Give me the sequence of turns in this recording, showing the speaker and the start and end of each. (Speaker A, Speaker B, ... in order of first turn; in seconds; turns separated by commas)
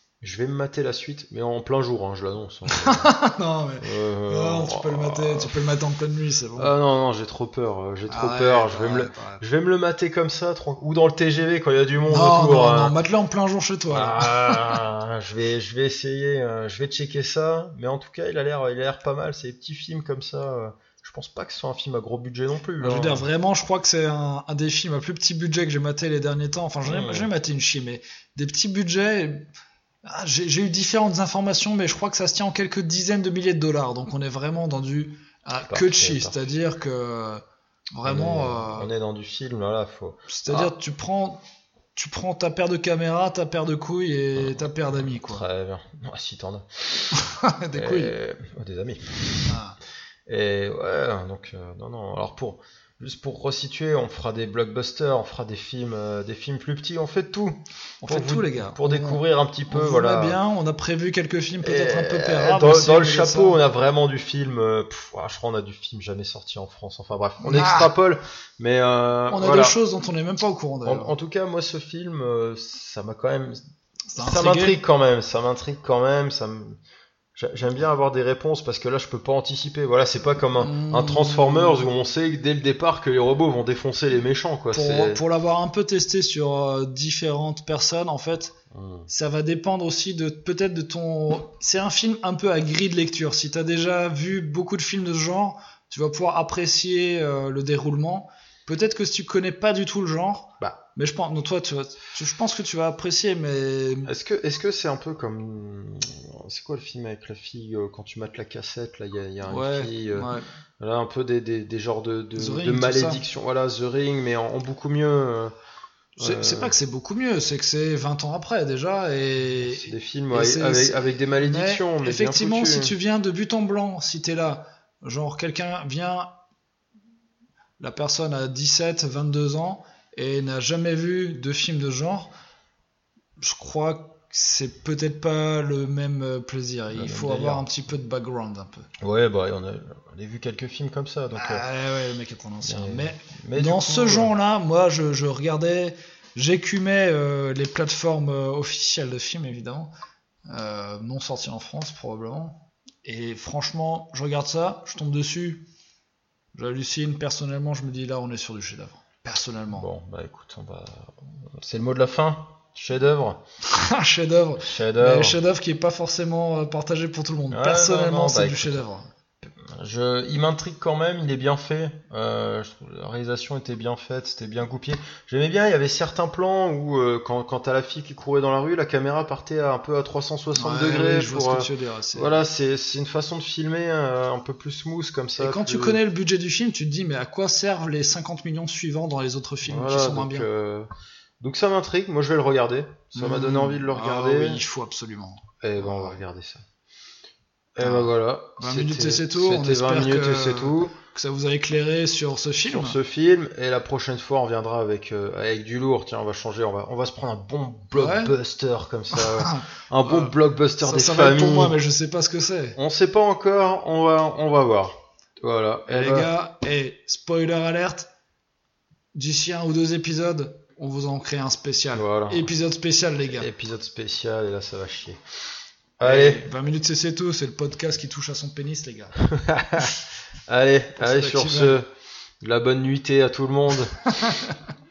Speaker A: 0.2-3.1, Speaker B: 2.6-6.7, Speaker A: 3.8-5.6, Speaker A: 6.6-12.9, Speaker B: 8.1-9.4, Speaker B: 12.1-14.8, Speaker A: 13.9-23.3, Speaker B: 22.8-29.5, Speaker A: 26.8-27.3, Speaker B: 30.0-37.4, Speaker A: 35.7-36.5, Speaker B: 37.9-38.9, Speaker A: 38.0-40.7, Speaker B: 40.3-41.4, Speaker B: 41.9-45.4, Speaker A: 44.4-47.1, Speaker B: 47.1-48.1, Speaker A: 47.7-49.5, Speaker B: 49.5-49.8, Speaker A: 50.3-60.4, Speaker B: 58.0-63.6, Speaker A: 61.6-69.8, Speaker B: 67.4-67.9, Speaker B: 69.3-71.1, Speaker A: 70.8-73.6, Speaker B: 74.1-74.8, Speaker A: 74.2-76.8, Speaker A: 77.3-85.2, Speaker B: 80.6-81.9, Speaker B: 84.7-88.5, Speaker A: 88.7-89.1, Speaker B: 89.1-104.1, Speaker A: 104.0-115.5, Speaker B: 109.4-110.5, Speaker B: 112.3-113.2, Speaker A: 116.2-116.8, Speaker B: 116.2-126.3, Speaker A: 119.5-122.9, Speaker B: 127.8-132.3, Speaker B: 133.4-138.9, Speaker A: 136.9-137.7, Speaker A: 139.0-141.6, Speaker B: 141.3-149.9, Speaker A: 142.6-144.3, Speaker B: 150.5-155.7, Speaker B: 156.5-159.9, Speaker A: 159.7-163.4, Speaker B: 163.7-169.1, Speaker A: 164.6-165.4, Speaker A: 167.5-168.8, Speaker A: 169.5-186.0, Speaker B: 180.5-182.4, Speaker B: 185.4-190.5, Speaker A: 189.6-190.9, Speaker A: 191.4-194.6, Speaker B: 193.1-196.2, Speaker A: 195.6-196.6, Speaker A: 197.8-200.9, Speaker B: 197.8-203.0, Speaker A: 202.6-211.8, Speaker B: 207.9-208.3, Speaker B: 209.1-212.8, Speaker A: 212.8-216.3, Speaker B: 215.9-218.1, Speaker B: 219.1-223.5, Speaker A: 221.9-222.5, Speaker A: 223.3-225.2, Speaker A: 226.0-226.5, Speaker B: 226.0-229.2, Speaker A: 229.3-229.9, Speaker A: 230.5-231.9, Speaker B: 230.9-231.8, Speaker A: 232.4-233.9, Speaker B: 234.2-234.5